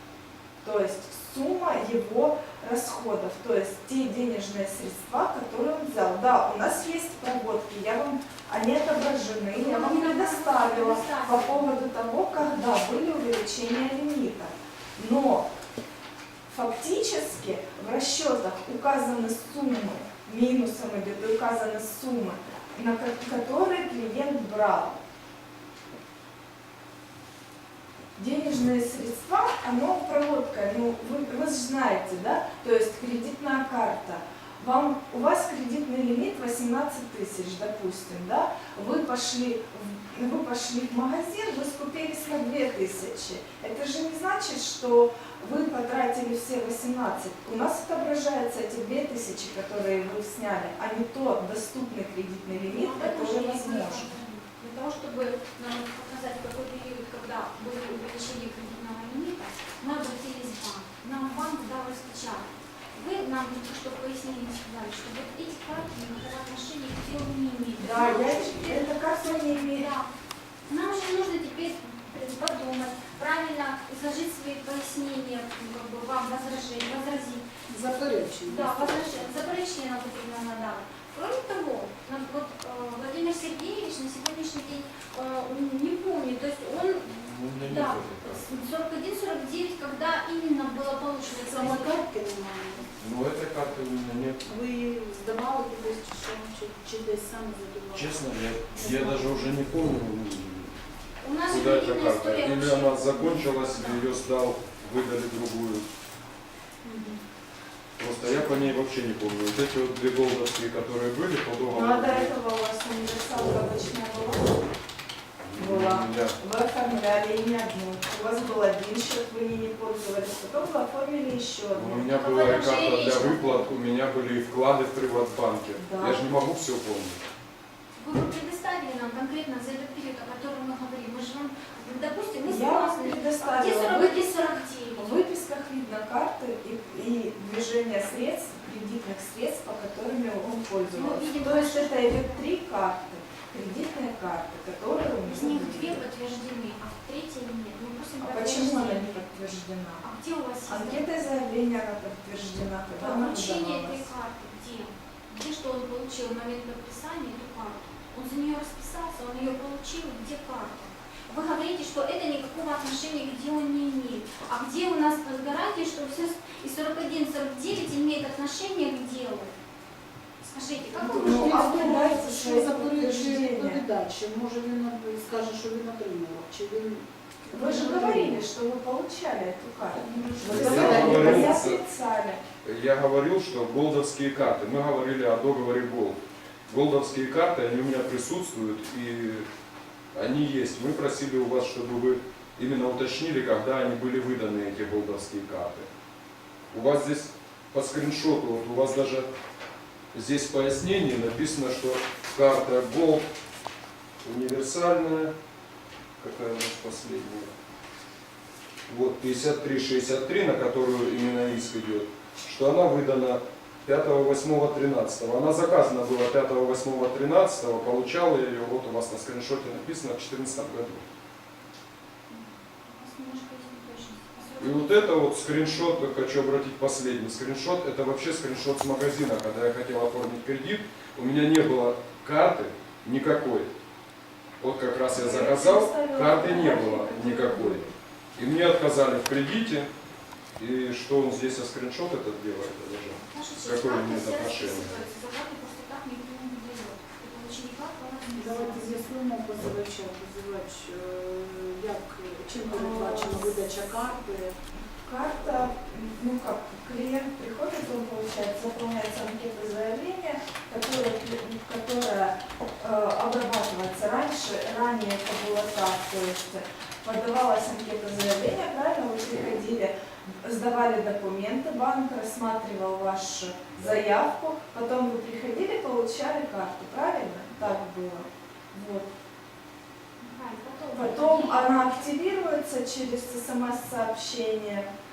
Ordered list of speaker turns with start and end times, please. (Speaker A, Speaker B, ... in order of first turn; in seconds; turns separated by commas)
Speaker A: 0.6-15.5, Speaker B: 9.5-11.7, Speaker A: 16.5-25.0, Speaker A: 28.1-54.1, Speaker B: 52.7-70.1, Speaker A: 67.8-69.9, Speaker B: 70.7-77.4, Speaker C: 77.7-79.2, Speaker B: 78.5-87.1, Speaker D: 87.0-88.5, Speaker B: 87.6-92.0, Speaker C: 91.4-92.9, Speaker D: 93.0-94.4, Speaker C: 94.4-99.2, Speaker D: 97.9-100.8, Speaker B: 101.2-104.0, Speaker D: 101.5-105.9, Speaker D: 108.0-112.3, Speaker A: 111.7-114.6, Speaker D: 115.5-116.3, Speaker A: 115.5-122.2, Speaker D: 121.7-127.2, Speaker B: 122.1-123.7, Speaker A: 125.8-126.3, Speaker B: 128.0-135.2, Speaker A: 132.4-146.0, Speaker B: 140.9-142.4, Speaker B: 145.2-149.2, Speaker A: 148.2-150.0, Speaker B: 150.0-151.1, Speaker A: 150.7-154.1, Speaker B: 153.0-169.5, Speaker B: 170.4-172.2, Speaker A: 170.9-173.8, Speaker C: 171.1-178.4, Speaker A: 177.5-182.4, Speaker C: 180.4-181.6, Speaker D: 180.5-181.8, Speaker D: 182.6-189.5, Speaker D: 190.1-195.9, Speaker D: 196.7-199.3, Speaker D: 200.1-203.2, Speaker D: 204.2-205.3, Speaker D: 206.2-207.5, Speaker D: 208.9-221.0, Speaker B: 222.3-226.1, Speaker D: 224.6-233.7, Speaker D: 234.6-239.9, Speaker A: 235.1-237.9, Speaker D: 240.6-245.0, Speaker B: 243.2-248.9, Speaker C: 248.3-254.6, Speaker A: 252.7-253.5, Speaker A: 254.9-279.1, Speaker B: 280.2-282.1, Speaker A: 280.9-284.9